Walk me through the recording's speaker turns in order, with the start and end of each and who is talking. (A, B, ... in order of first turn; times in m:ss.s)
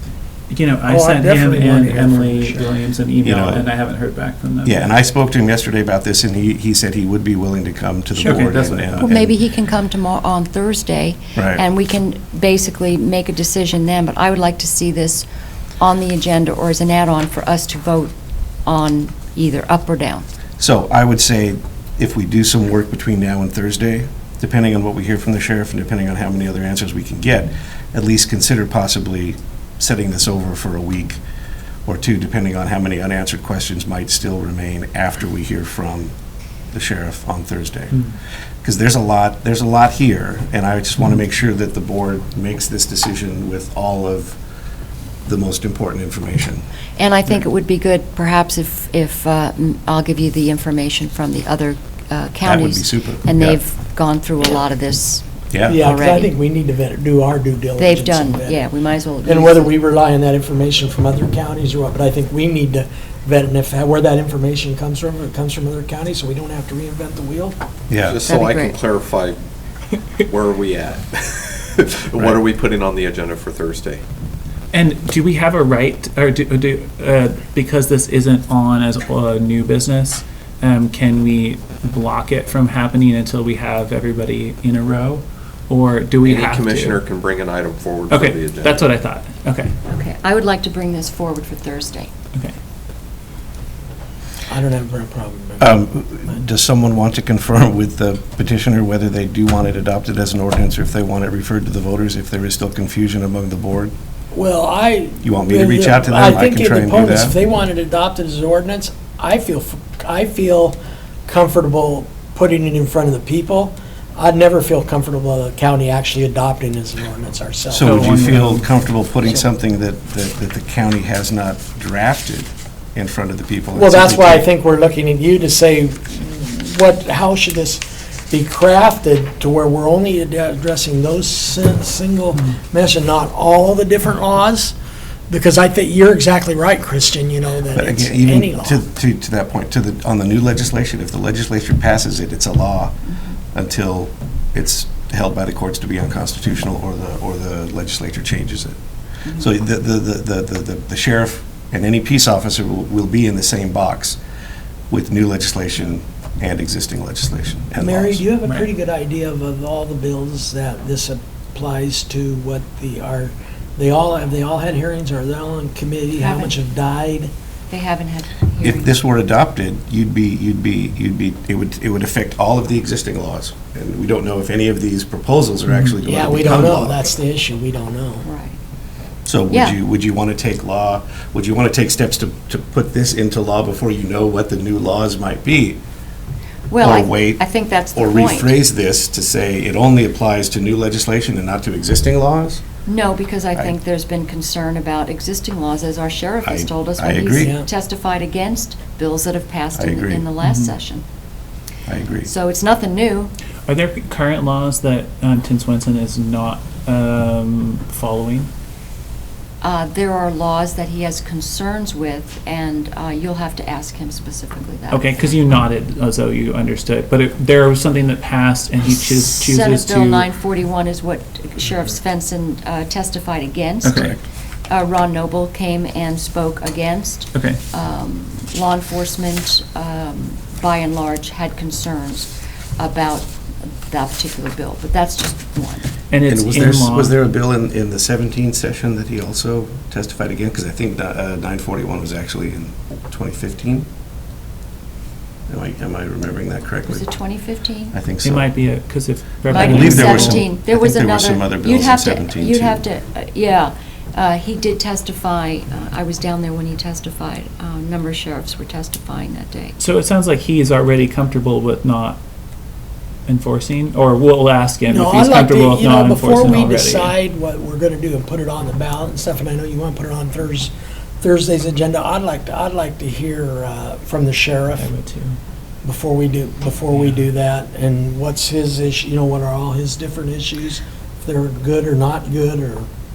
0:00.5-0:04.8 A
0:00.9-0:02.7 B
0:03.2-0:03.7 C
0:04.6-0:09.4 C
0:08.2-0:09.1 A
0:09.0-0:15.3 D
0:11.4-0:11.6 C
0:15.8-0:18.1 D
0:18.7-0:20.2 D
0:20.6-0:31.2 C
0:31.9-0:36.1 C
0:36.7-0:38.1 C
0:38.6-0:44.4 C
0:45.3-0:46.6 C
0:47.0-0:56.3 D
0:52.4-0:53.6 C
0:55.5-0:55.8 C
0:55.7-0:58.6 B
0:57.8-0:59.7 D
0:59.2-1:07.6 B
1:07.9-1:08.2 C
1:08.0-1:09.4 E
1:08.3-1:08.8 D
1:10.3-1:14.0 E
1:14.7-1:27.0 A
1:26.2-1:28.9 E
1:28.1-1:29.7 A
1:29.9-1:32.1 D
1:34.5-1:35.8 B
1:35.6-1:43.9 C
1:44.3-1:58.2 B
1:45.2-1:47.4 C
1:57.7-2:04.5 C
1:57.8-1:58.7 A
2:03.7-2:14.8 B
2:15.3-2:18.8 B
2:17.7-2:23.0 C
2:23.5-2:28.8 C
2:29.3-2:34.2 C
2:34.9-2:38.2 C
2:37.8-2:47.3 B
2:46.2-2:46.5 D
2:47.7-2:49.0 D
2:48.6-2:57.0 C
2:56.0-2:58.3 B
2:58.2-2:58.6 D
2:59.3-3:05.8 C
2:59.5-2:59.8 D
3:06.7-3:08.6 D
3:06.8-3:12.6 C
3:12.9-3:21.0 D
3:16.4-3:17.5 C
3:17.4-3:17.7 B
3:19.8-3:20.3 C
3:20.4-3:20.7 A
3:21.9-3:22.3 C
3:22.3-3:23.3 D
3:23.7-3:28.5 A
3:29.6-3:35.1 D
3:34.9-3:40.3 A
3:38.9-3:44.1 D
3:43.8-3:44.1 A
3:43.9-3:44.2 C
3:44.7-3:55.8 D
3:47.3-3:47.6 A
3:56.1-3:57.2 A
3:56.3-4:03.9 C
4:05.5-4:07.1 C
4:06.9-4:08.0 D
4:07.9-4:08.5 C
4:08.2-4:10.4 A
4:09.5-4:12.8 C
4:09.5-4:19.8 D
4:19.8-4:22.2 A
4:23.3-4:27.2 A
4:24.9-4:34.9 B
4:34.8-4:35.4 A
4:35.8-4:42.9 B
4:36.9-4:37.2 A